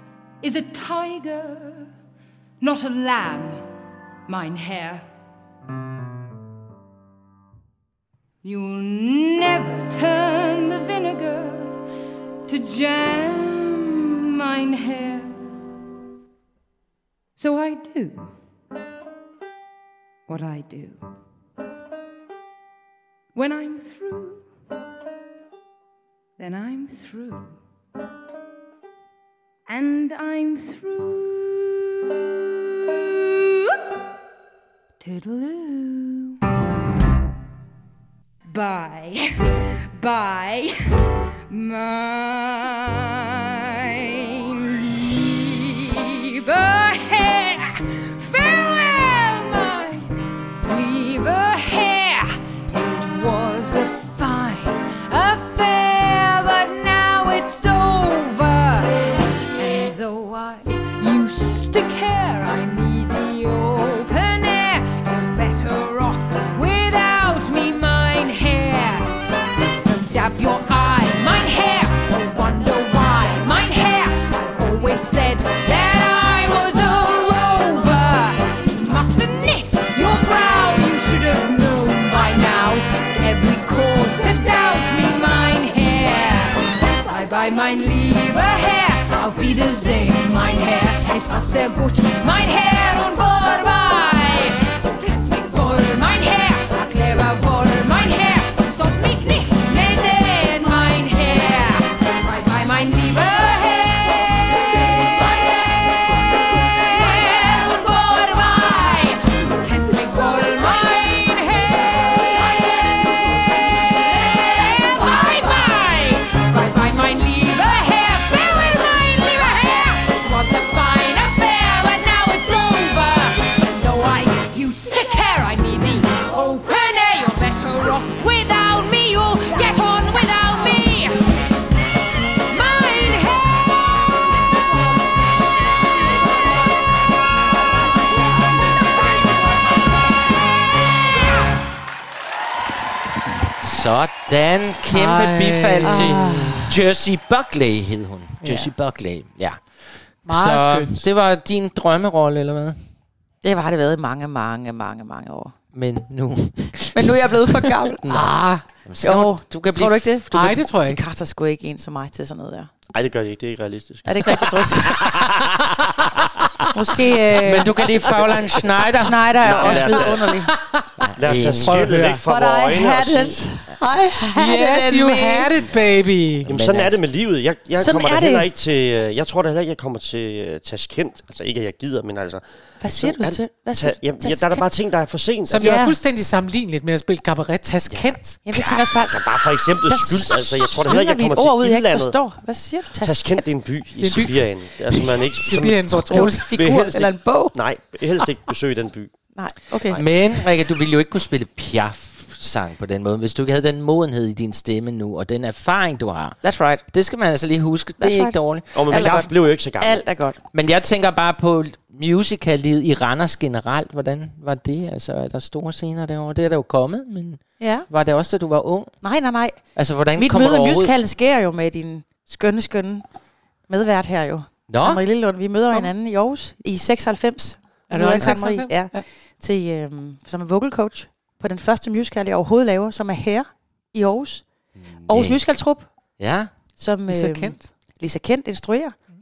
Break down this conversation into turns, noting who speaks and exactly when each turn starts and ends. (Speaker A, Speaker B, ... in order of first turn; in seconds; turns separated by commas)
Speaker A: 0.4-1.9, Speaker A: 2.6-3.7, Speaker A: 4.3-5.1, Speaker A: 8.4-11.8, Speaker A: 12.5-15.4, Speaker A: 17.4-18.3, Speaker A: 20.3-21.0, Speaker A: 23.4-24.5, Speaker A: 26.4-27.5, Speaker A: 29.7-33.8, Speaker A: 35.0-36.4, Speaker A: 38.5-69.1, Speaker A: 69.8-131.3, Speaker A: 132.5-133.7, Speaker B: 143.6-149.6, Speaker C: 144.9-146.7, Speaker D: 145.8-146.7, Speaker C: 148.4-148.7, Speaker B: 150.2-152.8, Speaker C: 150.3-151.1, Speaker D: 153.4-155.5, Speaker B: 155.7-160.2, Speaker D: 156.9-158.0, Speaker C: 158.1-158.7, Speaker D: 159.0-162.7, Speaker C: 160.3-161.0, Speaker E: 162.9-164.6, Speaker D: 164.1-165.0, Speaker B: 164.9-166.5, Speaker D: 166.7-167.8, Speaker B: 167.3-170.1, Speaker D: 169.0-170.5, Speaker E: 169.4-170.3, Speaker C: 170.5-170.8, Speaker B: 171.0-172.0, Speaker E: 171.2-173.4, Speaker C: 171.6-172.2, Speaker D: 172.2-175.5, Speaker C: 174.1-176.5, Speaker B: 176.4-177.0, Speaker E: 176.5-185.8, Speaker D: 177.8-178.5, Speaker D: 182.8-184.7, Speaker C: 185.5-188.4, Speaker D: 185.6-186.0, Speaker E: 187.9-192.2, Speaker D: 188.4-193.4, Speaker E: 193.0-199.2, Speaker C: 194.0-194.5, Speaker C: 195.4-196.6, Speaker D: 196.1-197.6, Speaker D: 199.3-200.0, Speaker B: 199.9-209.1, Speaker D: 206.4-206.8, Speaker D: 208.0-210.4, Speaker E: 208.8-210.0, Speaker B: 210.5-218.9, Speaker D: 217.6-217.9, Speaker D: 219.0-219.6, Speaker B: 219.8-220.9, Speaker D: 220.2-223.1, Speaker D: 223.7-234.5, Speaker B: 224.7-225.0, Speaker C: 227.9-229.0, Speaker B: 234.9-235.4, Speaker D: 235.1-235.9, Speaker B: 236.2-236.5, Speaker D: 236.8-239.0, Speaker C: 237.1-237.7